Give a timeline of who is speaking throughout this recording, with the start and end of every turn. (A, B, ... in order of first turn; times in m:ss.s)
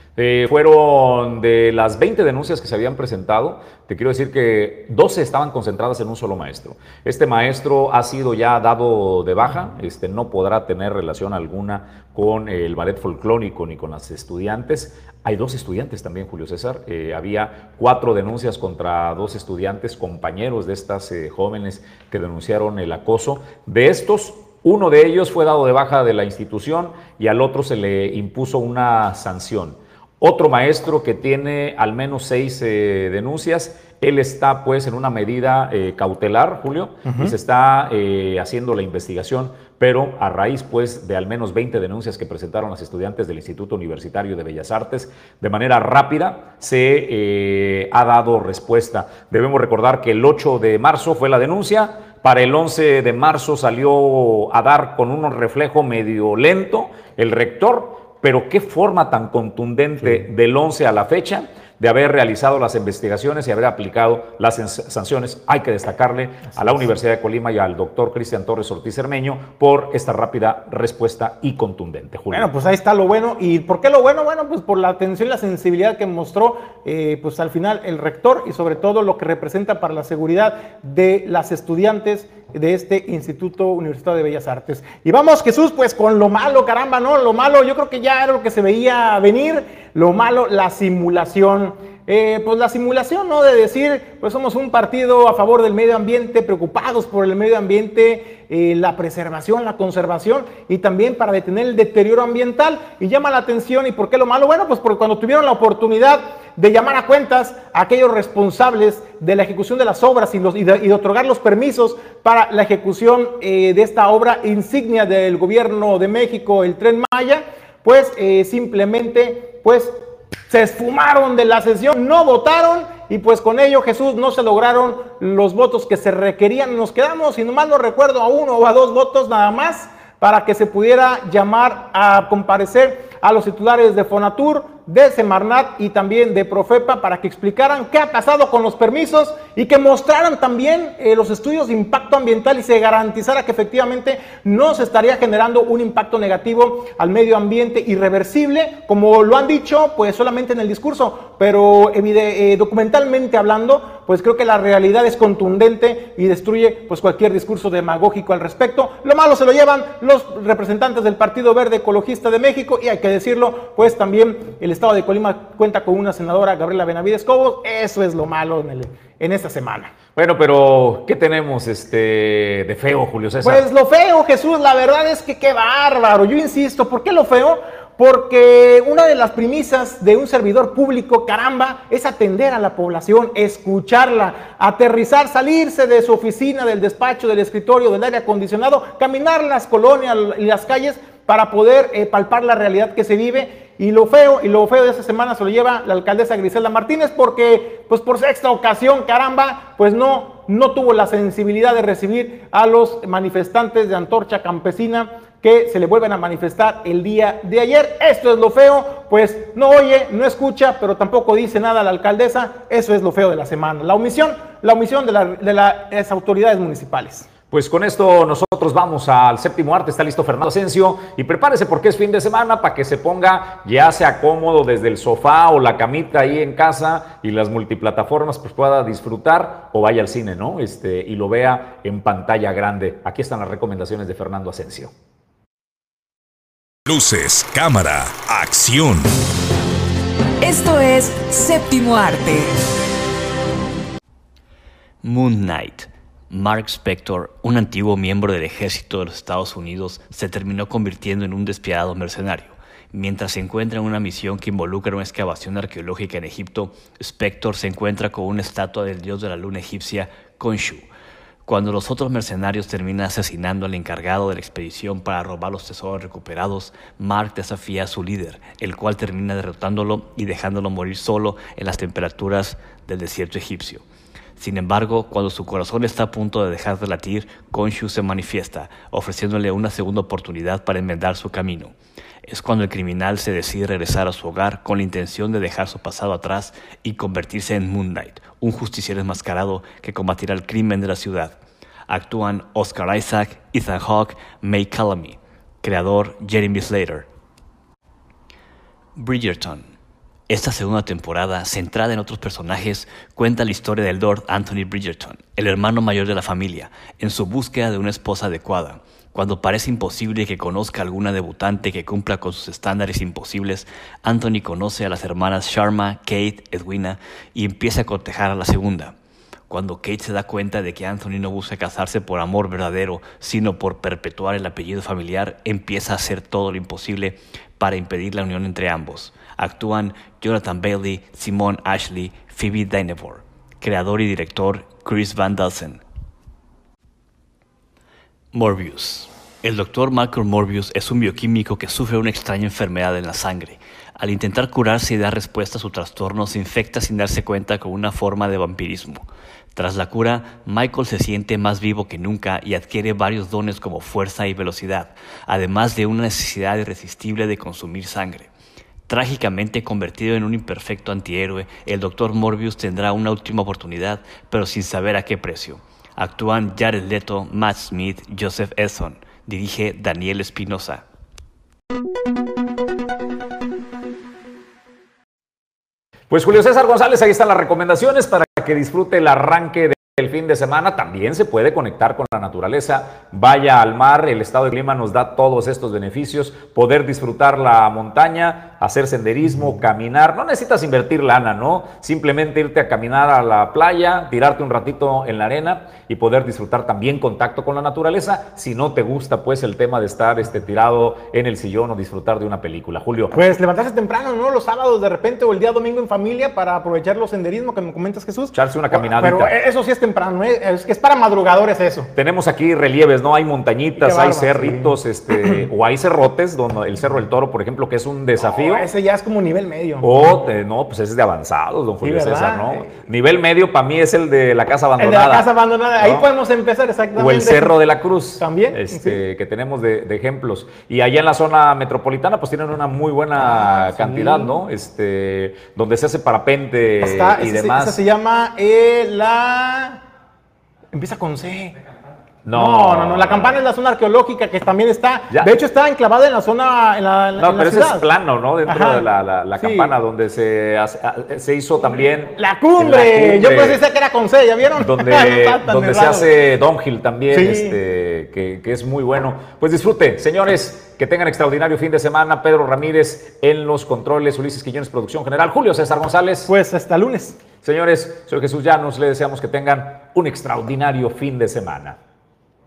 0:00.2-1:12.5 A
0:37.0-0:37.3 B
1:12.3-2:00.0 B
2:00.5-2:49.9 B
2:50.2-2:53.7 A
2:53.4-3:37.3 B
3:37.5-3:54.9 A
3:56.9-3:59.1 C
4:00.4-4:02.5 D
4:05.0-4:20.9 E
4:21.5-4:33.8 E
4:34.4-4:41.7 E
4:42.3-4:57.1 E
4:59.0-4:59.8 E
5:00.3-5:19.0 E
5:19.5-5:35.8 E
5:38.3-5:58.3 E
5:58.9-6:10.8 E
6:16.1-6:43.2 A
6:43.1-6:51.9 B
6:48.3-6:49.3 A
6:51.9-6:58.7 A
6:53.8-6:55.5 B
6:58.3-7:00.1 B
6:59.8-7:06.1 A
7:01.8-7:02.7 B
7:04.8-7:07.6 B
7:07.0-7:17.8 A
7:08.2-7:09.0 B
7:13.2-7:14.3 B
7:16.8-7:19.8 B
7:20.7-7:21.6 B
7:22.2-7:23.4 A
7:22.3-7:27.9 B
7:25.1-7:25.4 A
7:27.2-7:33.6 A
7:28.5-7:28.9 B
7:29.4-7:29.7 B
7:32.2-7:36.1 B
7:34.6-7:46.3 A
7:37.1-7:37.6 B
7:46.3-7:47.2 B
7:47.4-7:51.8 A